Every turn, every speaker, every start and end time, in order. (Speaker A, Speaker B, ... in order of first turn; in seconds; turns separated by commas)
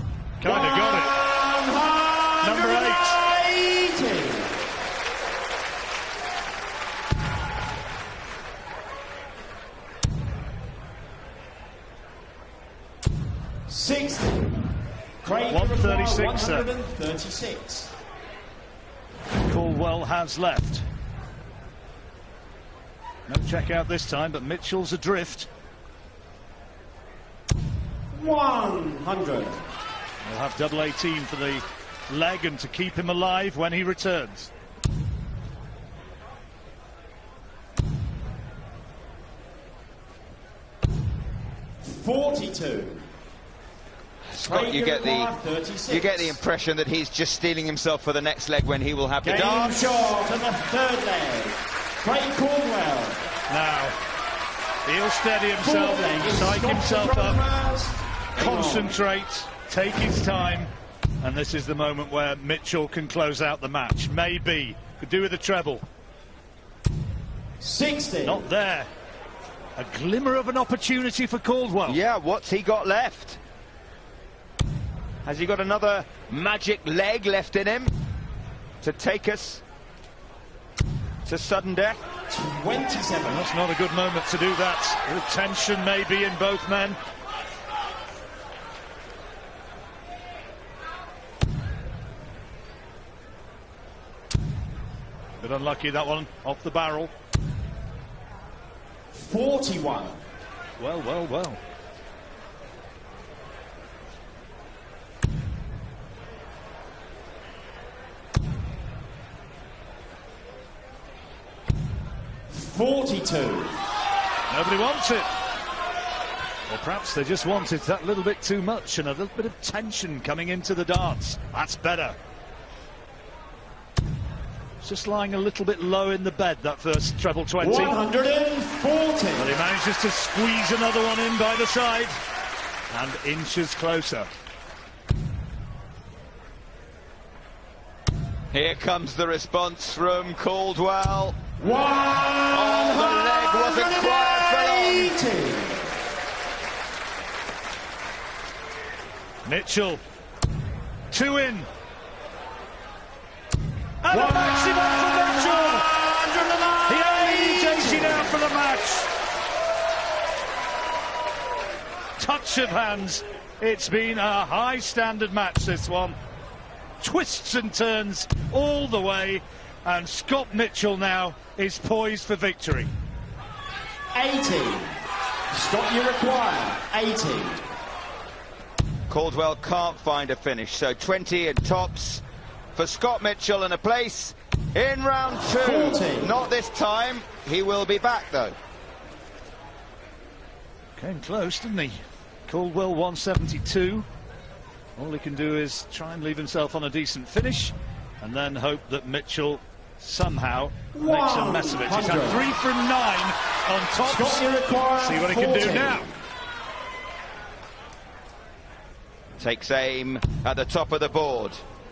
Speaker A: 0.4-1.2, Speaker B: 0.4-4.6, Speaker A: 2.4-3.2, Speaker B: 13.7-14.5, Speaker B: 15.2-17.9, Speaker A: 15.5-16.7, Speaker A: 19.5-20.8, Speaker A: 23.3-25.5, Speaker B: 28.1-29.6, Speaker A: 30.2-34.5, Speaker B: 41.8-43.0, Speaker C: 44.3-45.3, Speaker B: 44.4-46.4, Speaker C: 45.9-49.8, Speaker B: 49.2-53.2, Speaker A: 53.5-54.0, Speaker A: 54.9-57.4, Speaker B: 55.6-58.9, Speaker A: 58.4-60.7, Speaker A: 61.2-65.8, Speaker B: 67.6-68.5, Speaker A: 68.2-68.9, Speaker A: 69.8-72.0, Speaker C: 71.8-73.4, Speaker C: 75.2-77.9, Speaker C: 78.8-79.6, Speaker C: 81.2-82.0, Speaker B: 82.3-83.5, Speaker A: 83.3-87.0, Speaker A: 95.4-97.1, Speaker B: 99.1-100.2, Speaker A: 100.8-101.6, Speaker B: 112.5-113.7, Speaker A: 114.5-115.3, Speaker A: 116.7-122.2, Speaker A: 124.8-128.0, Speaker B: 127.6-129.5, Speaker A: 129.3-132.2, Speaker A: 132.9-134.3, Speaker C: 138.5-141.4, Speaker B: 141.6-145.9, Speaker C: 142.5-145.1, Speaker A: 149.4-150.0, Speaker A: 151.1-151.7, Speaker A: 154.0-155.9, Speaker B: 154.1-158.4, Speaker A: 156.9-159.1, Speaker A: 162.2-166.2, Speaker A: 167.0-172.9, Speaker B: 174.1-174.9, Speaker B: 175.5-177.6, Speaker C: 179.1-182.2, Speaker C: 182.7-188.6, Speaker B: 185.6-186.4, Speaker A: 191.0-194.1, Speaker A: 195.0-204.4, Speaker B: 200.9-202.5, Speaker B: 204.0-206.1, Speaker A: 205.0-206.1, Speaker C: 209.4-211.6